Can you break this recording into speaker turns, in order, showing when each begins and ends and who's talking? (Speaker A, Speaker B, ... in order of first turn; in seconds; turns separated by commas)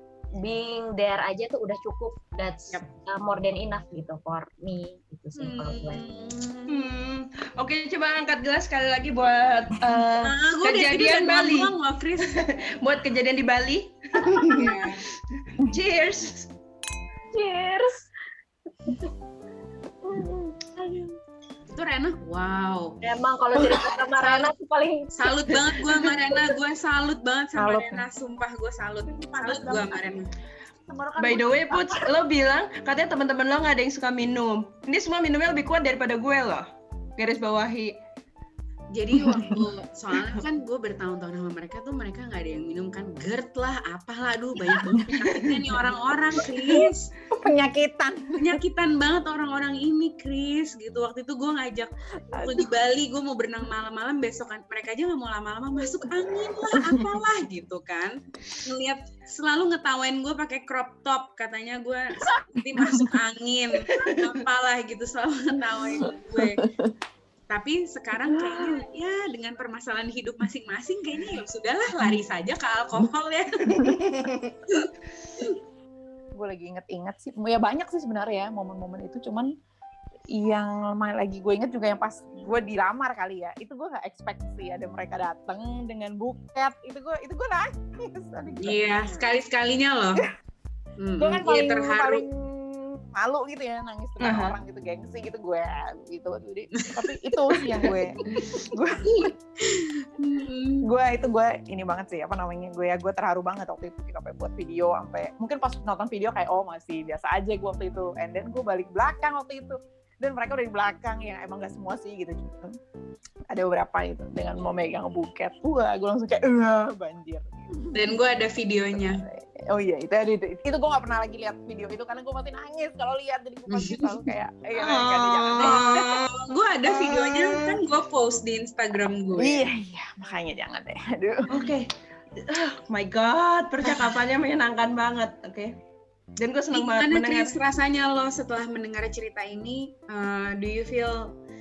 Speaker A: 0.4-6.0, Speaker B: 5.4-6.9, Speaker C: 6.7-14.9, Speaker B: 10.2-12.4, Speaker A: 14.3-14.6, Speaker B: 14.5-15.0, Speaker C: 15.5-16.5, Speaker A: 17.3-18.1, Speaker A: 20.1-21.1, Speaker B: 21.7-23.0, Speaker A: 23.0-25.5, Speaker B: 24.2-24.5, Speaker B: 25.1-30.3, Speaker D: 27.6-28.0, Speaker E: 29.1-30.2, Speaker E: 30.9-32.0, Speaker C: 31.2-37.9, Speaker B: 38.9-47.1, Speaker D: 44.8-45.3, Speaker D: 46.5-48.6, Speaker B: 48.4-66.7, Speaker D: 52.3-52.7, Speaker C: 63.9-64.2, Speaker D: 66.0-66.9, Speaker B: 67.5-74.0, Speaker C: 73.6-74.6, Speaker B: 74.7-75.5, Speaker D: 76.3-79.5, Speaker D: 80.3-89.3, Speaker B: 88.6-90.2, Speaker B: 91.0-92.2, Speaker D: 91.2-99.3, Speaker C: 94.2-94.5, Speaker B: 96.8-97.7, Speaker B: 99.1-100.9, Speaker D: 100.8-112.8, Speaker D: 113.5-118.0, Speaker B: 117.9-119.2, Speaker D: 118.9-125.8, Speaker B: 123.7-124.2, Speaker C: 124.8-126.2, Speaker B: 125.6-129.7, Speaker C: 126.8-127.8, Speaker D: 129.3-131.7, Speaker C: 131.5-135.7, Speaker C: 136.4-137.5, Speaker B: 136.7-141.3